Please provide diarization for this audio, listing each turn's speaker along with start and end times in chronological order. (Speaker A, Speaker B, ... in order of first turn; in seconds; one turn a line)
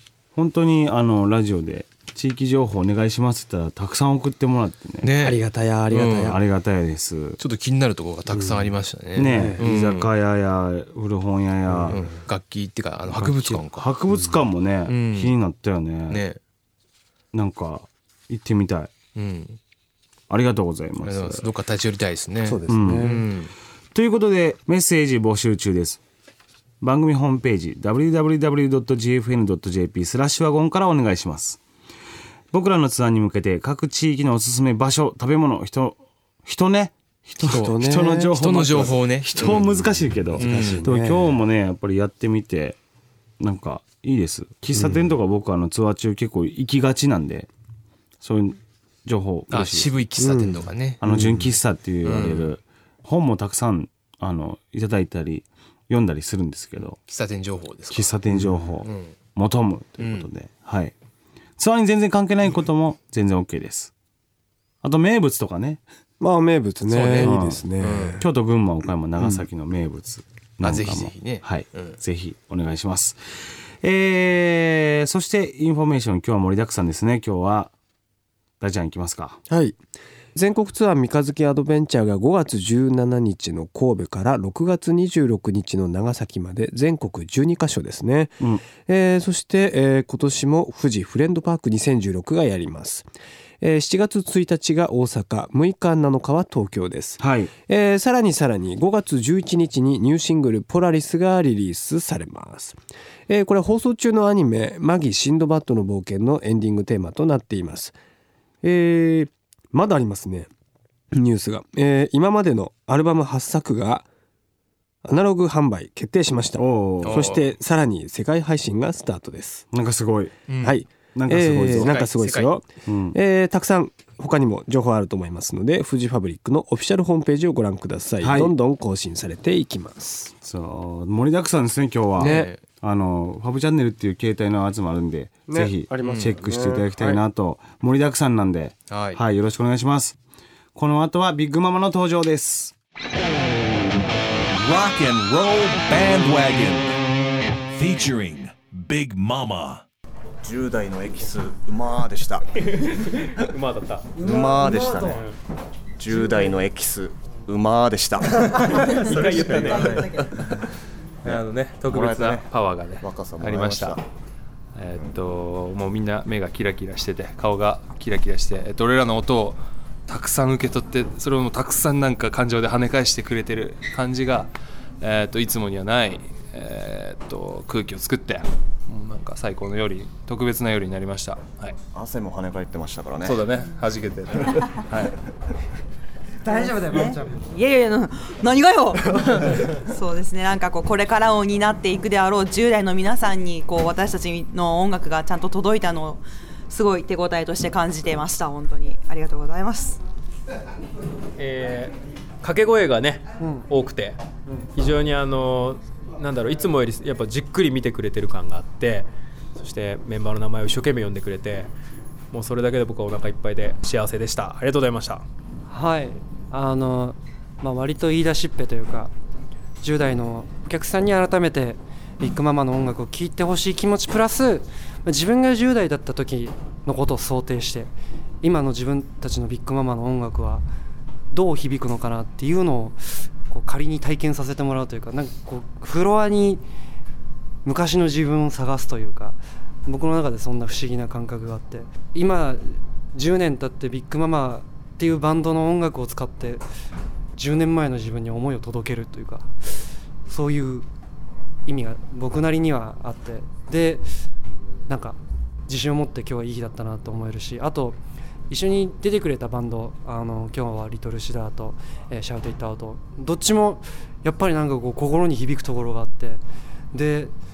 Speaker A: 0.3-5.1
Speaker B: 5.0-5.4
Speaker C: 5.2-6.4
Speaker B: 5.9-6.3
Speaker A: 6.2-7.4
Speaker B: 7.4-10.1
Speaker C: 8.3-9.6
Speaker A: 9.2-12.0
Speaker C: 11.7-12.1
Speaker B: 11.9-13.9
Speaker A: 13.1-16.2
Speaker C: 14.1-14.4
Speaker B: 14.9-15.3
Speaker B: 16.1-16.4
Speaker A: 17.3-18.9
Speaker B: 19.1-19.6
Speaker A: 20.3-21.5
Speaker B: 21.0-23.5
Speaker C: 22.4-23.2
Speaker A: 22.7-23.2
Speaker A: 23.9-26.0
Speaker A: 26.8-31.6
Speaker A: 32.5-42.8
Speaker C: 37.4-41.4
Speaker B: 37.4-37.7
Speaker B: 38.3-39.6
Speaker B: 40.4-40.9
Speaker A: 43.4-47.5
Speaker C: 44.7-45.1
Speaker A: 48.2-49.9
Speaker B: 49.5-51.0
Speaker C: 50.2-51.5
Speaker A: 51.0-57.0
Speaker B: 52.0-52.5
Speaker B: 57.0-58.1
Speaker A: 57.9-60.9
Speaker C: 58.3-58.7
Speaker B: 58.8-59.1
Speaker B: 60.0-60.3
Speaker A: 61.6-63.9
Speaker A: 64.8-65.8
Speaker C: 66.2-68.2
Speaker B: 66.9-68.2
Speaker A: 67.2-67.6
Speaker A: 68.2-73.2
Speaker C: 69.2-69.4
Speaker B: 70.6-72.0
Speaker A: 73.8-77.7
Speaker A: 78.6-79.4
Speaker C: 79.5-79.8
Speaker C: 80.3-93.1
Speaker C: 93.6-108.0
Speaker A: 97.2-97.5
Speaker C: 108.6-110.5
Speaker C: 111.1-114.1
Speaker C: 115.0-119.7
Speaker A: 116.6-117.3
Speaker B: 117.0-117.5
Speaker A: 119.7-120.3
Speaker B: 120.5-120.8
Speaker C: 120.6-130.3
Speaker A: 121.1-122.0
Speaker B: 121.7-122.6
Speaker A: 122.8-123.2
Speaker A: 128.2-128.5
Speaker A: 130.4-140.2
Speaker C: 132.2-132.5
Speaker B: 132.2-132.6
Speaker C: 135.5-137.2
Speaker B: 136.0-136.3
Speaker B: 138.9-139.2
Speaker A: 140.7-142.7
Speaker D: 144.5-147.0
Speaker D: 147.7-149.8
Speaker E: 150.4-152.4
Speaker F: 153.5-154.2
Speaker E: 154.2-155.2
Speaker E: 156.0-160.0
Speaker G: 159.0-160.1
Speaker F: 159.2-159.7
Speaker G: 161.2-164.0
Speaker E: 161.2-164.0
Speaker G: 164.7-181.8
Speaker E: 181.9-183.4
Speaker G: 183.2-185.1
Speaker H: 186.4-200.0
Speaker F: 201.4-204.2
Speaker F: 204.7-211.7
Speaker F: 212.3-215.2
Speaker I: 215.7-219.1
Speaker I: 219.8-230.6
Speaker I: 231.3-236.6
Speaker I: 237.6-246.6
Speaker I: 247.3-249.6
Speaker I: 250.2-250.8
Speaker I: 251.7-254.1
Speaker I: 254.9-258.0
Speaker I: 258.5-266.4
Speaker I: 266.9-267.3